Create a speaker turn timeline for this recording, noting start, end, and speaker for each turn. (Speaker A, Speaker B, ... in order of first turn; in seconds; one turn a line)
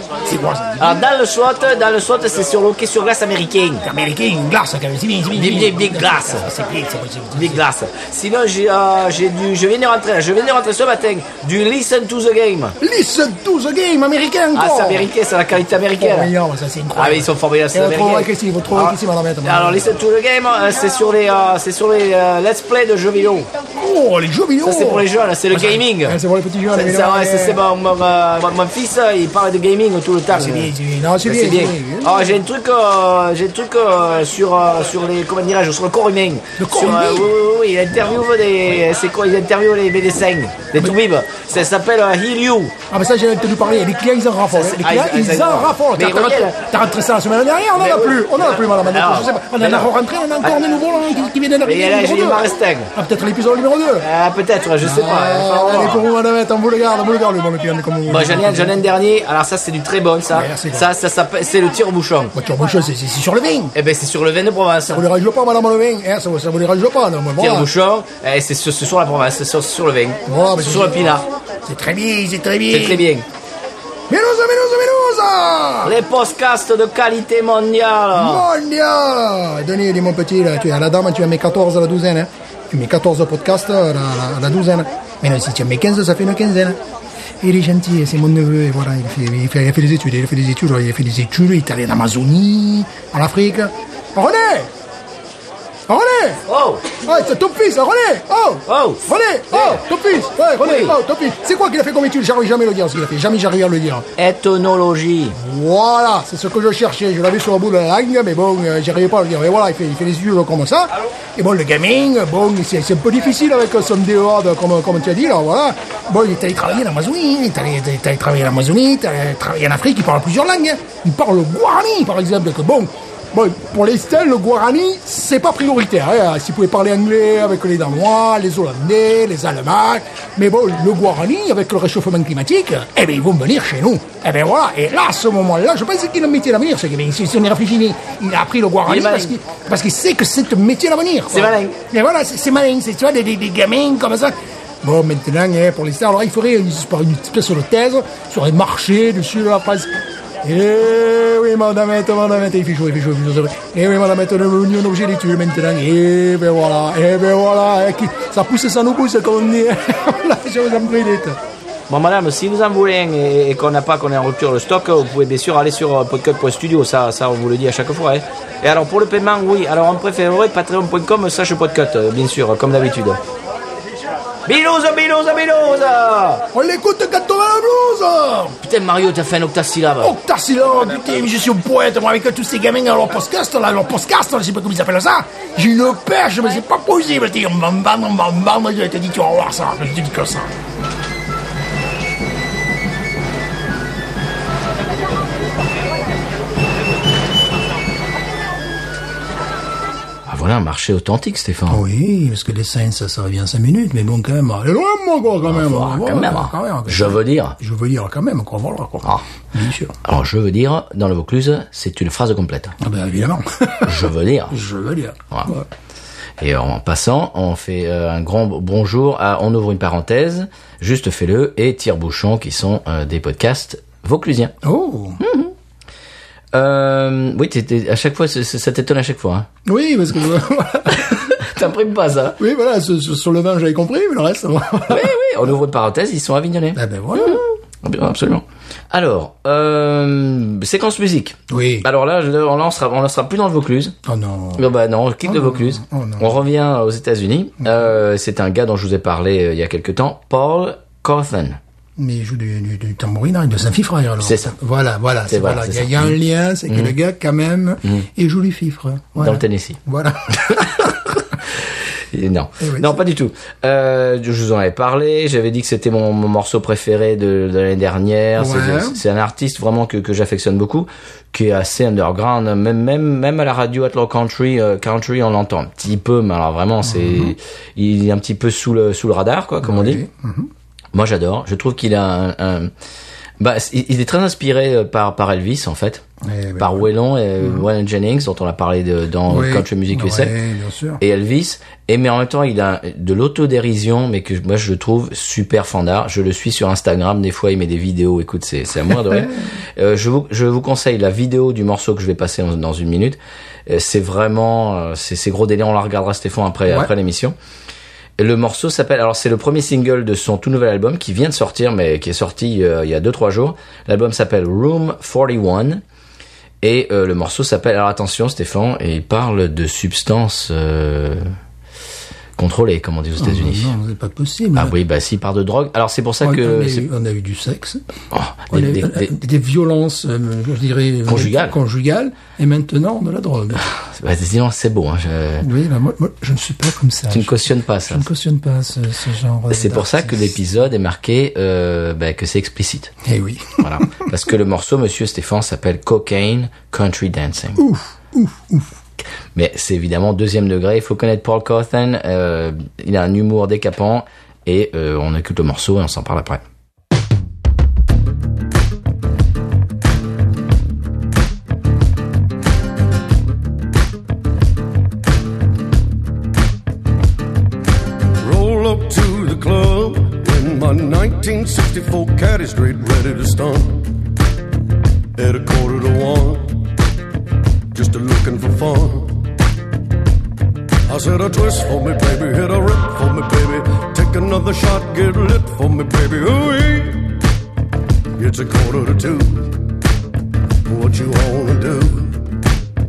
Speaker A: 0.2-1.0
Speaker B: 0.8-3.9
Speaker A: 3.8-7.6
Speaker B: 5.3-6.5
Speaker B: 7.3-12.8
Speaker A: 12.8-15.1
Speaker B: 14.5-16.3
Speaker A: 16.0-19.9
Speaker B: 16.9-23.5
Speaker A: 23.8-27.6
Speaker B: 24.6-26.2
Speaker B: 26.7-30.7
Speaker A: 30.3-32.4
Speaker B: 31.2-42.7
Speaker A: 36.6-37.3
Speaker A: 42.9-54.0
Speaker B: 44.5-46.6
Speaker B: 47.8-50.6
Speaker B: 51.6-52.9
Speaker B: 54.0-56.0
Speaker A: 54.8-58.8
Speaker B: 58.1-62.3
Speaker A: 60.3-60.9
Speaker A: 62.3-63.7
Speaker B: 63.7-65.0
Speaker A: 64.9-67.7
Speaker B: 67.4-71.3
Speaker A: 70.3-71.1
Speaker A: 71.7-73.1
Speaker B: 72.7-73.3
Speaker A: 74.1-76.0
Speaker B: 75.8-78.5
Speaker A: 78.1-86.8
Speaker A: 87.4-94.7
Speaker A: 95.9-96.4
Speaker B: 96.5-96.8
Speaker A: 97.0-104.0
Speaker B: 98.7-99.8
Speaker B: 100.6-101.0
Speaker B: 104.2-105.4
Speaker A: 105.4-149.9
Speaker B: 138.8-139.4
Speaker B: 141.3-141.8
Speaker A: 150.4-161.4
Speaker B: 161.9-173.2
Speaker B: 174.5-176.4
Speaker A: 176.5-178.6
Speaker B: 178.6-180.1
Speaker A: 180.0-190.5
Speaker B: 200.3-201.8
Speaker A: 201.7-209.9
Speaker B: 205.4-207.6
Speaker B: 210.0-212.8
Speaker A: 212.8-215.7
Speaker B: 213.8-214.6
Speaker B: 216.4-224.5
Speaker A: 224.6-225.2
Speaker B: 225.2-225.5
Speaker B: 226.5-229.5
Speaker A: 229.7-231.4
Speaker B: 230.9-232.4
Speaker A: 232.4-235.1
Speaker B: 234.9-243.9
Speaker A: 236.8-237.4
Speaker A: 241.5-241.9
Speaker A: 244.1-244.7
Speaker B: 244.6-251.6
Speaker A: 245.2-246.3
Speaker A: 252.0-260.9
Speaker B: 254.2-254.6
Speaker B: 255.3-256.2
Speaker B: 256.7-257.0
Speaker B: 259.2-259.8
Speaker B: 260.5-261.0
Speaker B: 261.6-280.0
Speaker A: 262.6-263.0
Speaker A: 268.4-269.0
Speaker A: 276.8-277.4
Speaker A: 279.6-280.5
Speaker B: 280.9-282.7
Speaker B: 283.4-286.1
Speaker A: 286.2-286.9
Speaker B: 286.6-290.4
Speaker A: 287.4-287.7
Speaker A: 289.3-291.0
Speaker B: 291.0-307.4
Speaker A: 298.9-299.4
Speaker B: 308.2-315.8
Speaker B: 316.6-321.3
Speaker B: 322.4-323.8
Speaker A: 323.2-324.7
Speaker B: 324.6-326.9
Speaker A: 326.2-327.8
Speaker B: 328.1-329.2
Speaker A: 328.5-333.6
Speaker B: 331.1-331.6
Speaker B: 333.6-335.5
Speaker A: 335.4-340.4
Speaker B: 337.1-338.1
Speaker B: 339.5-342.9
Speaker A: 343.1-343.8
Speaker B: 343.6-347.6
Speaker A: 347.6-348.7
Speaker B: 349.4-356.4
Speaker C: 368.2-374.0
Speaker C: 375.2-376.7
Speaker C: 377.7-379.3
Speaker C: 380.9-387.2
Speaker C: 388.2-389.7
Speaker C: 390.7-392.3